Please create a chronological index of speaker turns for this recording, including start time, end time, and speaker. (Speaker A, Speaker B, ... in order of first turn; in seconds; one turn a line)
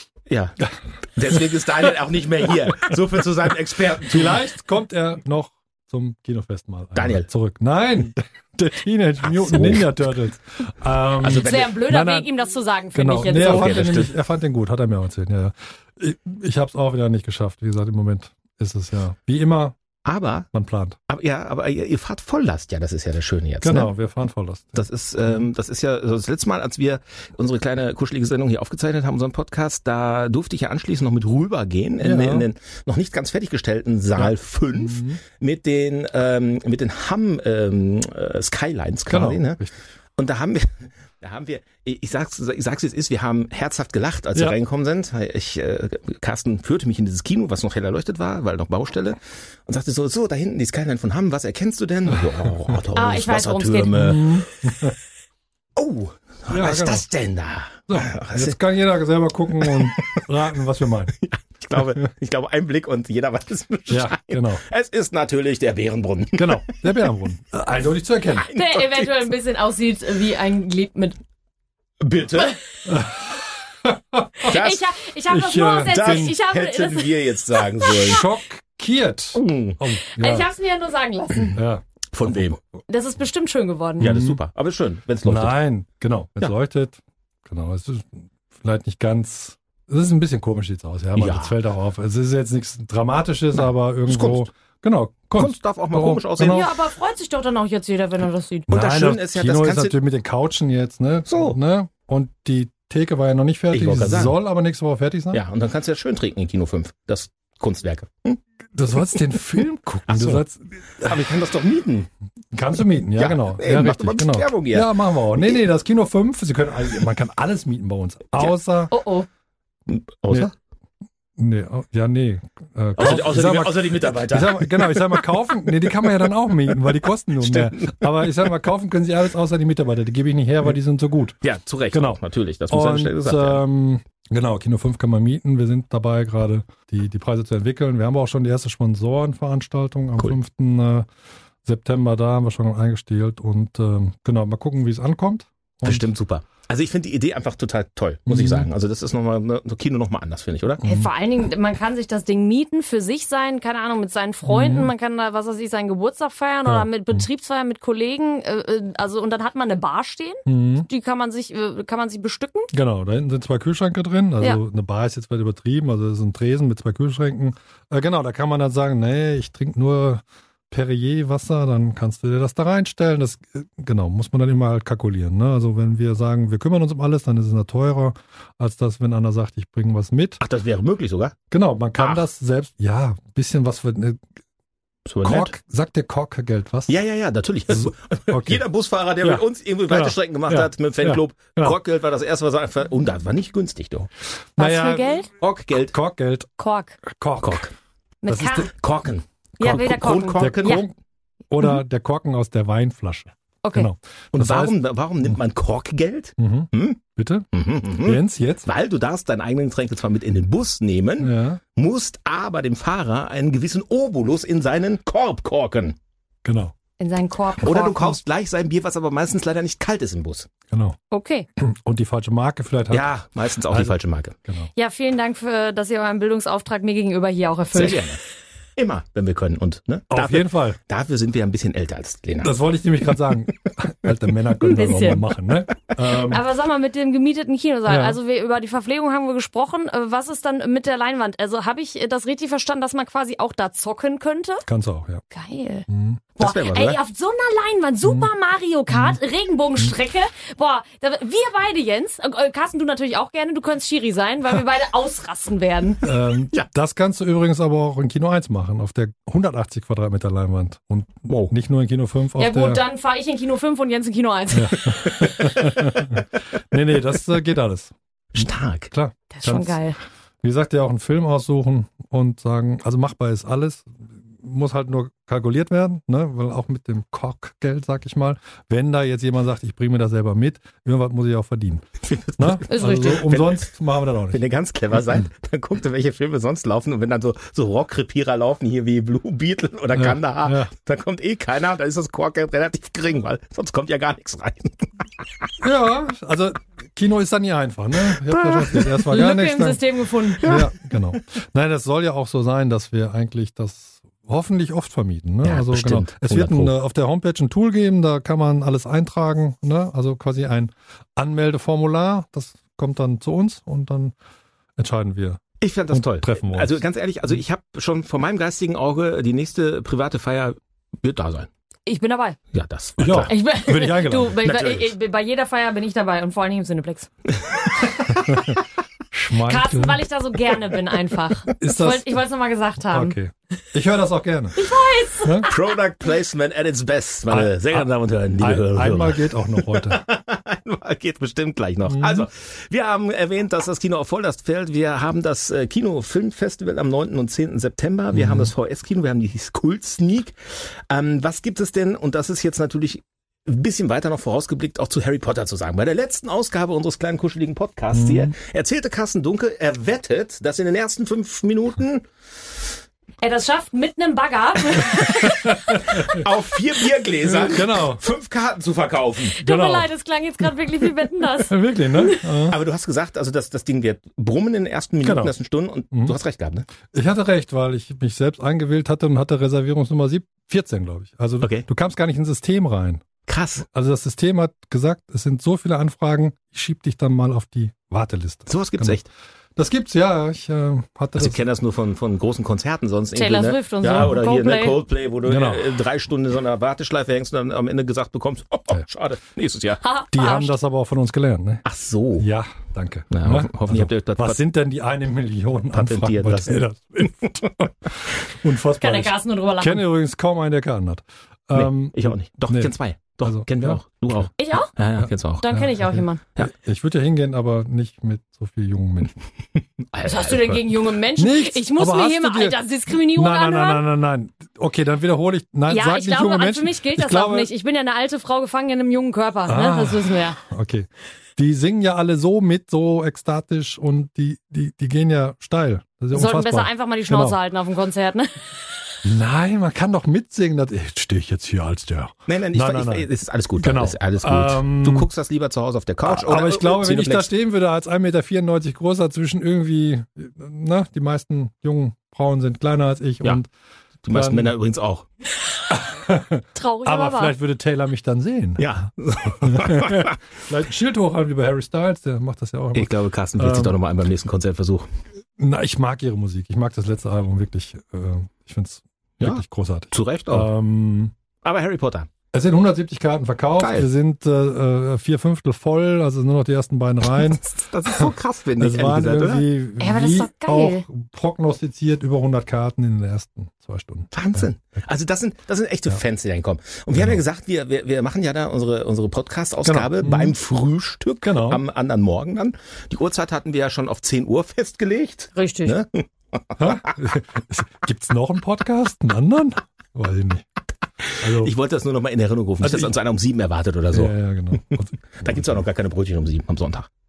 Speaker A: 0.3-4.4
Speaker B: 4.0-12.3
Speaker A: 7.0-7.3
Speaker A: 9.3-9.9
Speaker A: 11.2-11.8
Speaker C: 11.4-13.8
Speaker B: 12.9-19.8
Speaker A: 13.3-14.1
Speaker A: 20.1-20.5
Speaker B: 20.5-21.0
Speaker A: 21.1-23.9
Speaker B: 23.6-25.4
Speaker A: 24.8-39.6
Speaker B: 32.0-32.5
Speaker B: 34.2-35.2
Speaker B: 39.1-39.8
Speaker A: 40.2-54.4
Speaker C: 53.0-54.2
Speaker B: 53.9-55.0
Speaker A: 55.8-58.6
Speaker B: 56.5-57.0
Speaker B: 57.9-61.1
Speaker A: 59.6-60.2
Speaker A: 61.2-66.8
Speaker B: 63.9-64.6
Speaker B: 66.3-68.5
Speaker A: 68.3-69.2
Speaker C: 68.5-71.2
Speaker A: 72.0-72.6
Speaker B: 72.9-74.5
Speaker C: 74.4-78.1
Speaker A: 74.5-74.9
Speaker B: 75.3-76.3
Speaker A: 75.9-78.2
Speaker B: 77.9-80.5
Speaker A: 79.3-79.8
Speaker C: 80.1-81.6
Speaker B: 81.5-81.8
Speaker A: 82.1-82.6
Speaker C: 82.9-84.1
Speaker B: 84.0-84.4
Speaker A: 84.0-85.5
Speaker B: 85.2-96.7
Speaker A: 91.2-91.5
Speaker A: 94.1-94.5
Speaker A: 95.3-96.7
Speaker C: 96.4-98.7
Speaker B: 98.7-105.4
Speaker A: 98.7-100.0
Speaker A: 101.3-101.6
Speaker A: 103.7-104.4
Speaker A: 105.3-108.4
Speaker B: 108.8-111.2
Speaker A: 110.1-110.4
Speaker A: 111.0-112.1
Speaker B: 112.5-118.9
Speaker A: 113.2-114.9
Speaker C: 118.9-119.3
Speaker A: 119.9-120.5
Speaker B: 121.4-131.4
Speaker A: 123.0-125.2
Speaker A: 127.4-128.0
Speaker A: 131.4-133.6
Speaker B: 131.9-141.1
Speaker B: 141.7-146.1
Speaker A: 145.8-150.8
Speaker B: 148.3-148.7
Speaker B: 150.8-151.1
Speaker C: 150.8-162.7
Speaker B: 154.5-154.9
Speaker B: 156.7-157.2
Speaker B: 160.5-160.9
Speaker B: 162.7-180.4
Speaker A: 180.4-181.4
Speaker B: 181.5-184.2
Speaker A: 182.0-182.2
Speaker A: 185.1-185.5
Speaker B: 185.2-186.9
Speaker A: 186.9-194.1
Speaker B: 187.7-188.6
Speaker B: 189.2-191.8
Speaker B: 194.6-195.2
Speaker C: 194.6-195.3
Speaker A: 195.4-195.9
Speaker B: 195.9-196.5
Speaker C: 196.6-197.0
Speaker B: 197.1-197.7
Speaker A: 197.4-197.7
Speaker C: 198.2-198.7
Speaker B: 198.3-198.7
Speaker A: 198.7-200.8
Speaker C: 199.6-200.8
Speaker B: 200.3-200.9
Speaker B: 201.5-204.8
Speaker A: 204.3-207.0
Speaker B: 206.4-207.5
Speaker A: 207.5-216.0
Speaker B: 208.0-208.7
Speaker B: 211.2-211.6
Speaker B: 216.4-216.7
Speaker C: 217.0-218.2
Speaker A: 217.6-220.5
Speaker B: 220.7-221.0
Speaker C: 221.1-221.5
Speaker B: 221.6-223.1
Speaker A: 222.9-224.3
Speaker B: 223.7-223.9
Speaker C: 224.8-228.0
Speaker A: 227.7-228.2
Speaker A: 228.8-232.6
Speaker B: 230.1-230.8
Speaker B: 232.4-236.4
Speaker C: 234.6-235.2
Speaker C: 236.1-244.7
Speaker B: 237.9-238.2
Speaker B: 244.7-245.2
Speaker C: 245.3-256.0
Speaker B: 245.9-246.2
Speaker A: 246.4-247.0
Speaker B: 248.9-249.2
Speaker B: 256.0-262.8
Speaker A: 261.3-261.5
Speaker C: 262.4-265.2
Speaker B: 264.5-269.8
Speaker A: 268.3-268.9
Speaker C: 269.3-270.0
Speaker B: 270.4-281.9
Speaker A: 282.0-283.7
Speaker B: 282.4-284.4
Speaker C: 282.7-283.2
Speaker A: 284.3-295.5
Speaker B: 289.9-290.7
Speaker B: 295.6-299.8
Speaker A: 298.2-299.0
Speaker C: 299.1-300.5
Speaker A: 300.4-300.7
Speaker B: 300.4-314.1
Speaker A: 305.4-306.7
Speaker B: 314.8-316.8
Speaker A: 315.6-321.5
Speaker C: 321.9-322.4
Speaker A: 322.5-323.3
Speaker B: 323.0-324.4
Speaker C: 323.3-327.1
Speaker A: 324.4-324.9
Speaker A: 327.9-328.5
Speaker B: 329.1-330.0
Speaker C: 329.4-333.2
Speaker B: 331.6-332.1
Speaker B: 332.9-334.6
Speaker C: 334.6-335.7
Speaker B: 335.2-335.5
Speaker A: 335.5-350.3
Speaker B: 337.3-337.8
Speaker B: 338.4-340.0
Speaker B: 341.9-342.3
Speaker B: 348.1-348.5
Speaker A: 350.9-362.1
Speaker B: 357.9-358.3
Speaker C: 363.2-366.0
Speaker B: 365.1-366.2
Speaker A: 366.0-369.4
Speaker B: 367.2-368.0
Speaker B: 369.4-369.9
Speaker C: 369.4-372.3
Speaker B: 371.5-372.6
Speaker A: 372.5-376.7
Speaker B: 375.0-375.3
Speaker B: 375.9-376.2
Speaker B: 376.9-383.1
Speaker A: 383.3-383.6
Speaker B: 383.6-389.0
Speaker A: 388.5-389.1
Speaker B: 389.6-391.4
Speaker A: 391.2-399.8
Speaker C: 393.1-394.8
Speaker B: 395.2-395.8
Speaker C: 399.8-400.5
Speaker B: 400.1-401.6
Speaker A: 401.6-402.3
Speaker B: 402.2-407.7
Speaker A: 403.1-404.4
Speaker A: 405.7-406.6
Speaker A: 407.2-407.5
Speaker B: 408.3-412.7
Speaker C: 408.8-409.8
Speaker A: 411.5-415.4
Speaker B: 413.2-414.2
Speaker C: 414.4-414.7
Speaker C: 415.4-416.2
Speaker B: 415.5-419.1
Speaker A: 419.9-420.7
Speaker C: 420.0-423.8
Speaker B: 421.2-427.5
Speaker C: 425.7-430.4
Speaker B: 429.5-437.4
Speaker C: 436.1-438.4
Speaker B: 439.0-443.1
Speaker A: 442.3-447.3
Speaker B: 443.6-445.1
Speaker B: 446.1-453.5
Speaker A: 454.0-455.1
Speaker B: 454.1-454.5
Speaker B: 455.7-458.7
Speaker C: 456.6-457.3
Speaker A: 458.6-460.2
Speaker B: 459.4-463.8
Speaker A: 462.8-464.9
Speaker B: 465.4-471.1
Speaker A: 469.2-470.5
Speaker A: 471.4-472.1
Speaker B: 472.3-484.5
Speaker A: 473.6-473.9
Speaker A: 477.1-479.5
Speaker C: 479.8-480.8
Speaker A: 484.1-496.7
Speaker B: 489.6-490.4
Speaker B: 491.2-491.6
Speaker C: 495.3-495.8
Speaker B: 496.6-500.5
Speaker A: 501.2-504.1
Speaker B: 501.2-501.5
Speaker B: 502.6-502.9
Speaker B: 503.9-505.6
Speaker A: 504.7-506.9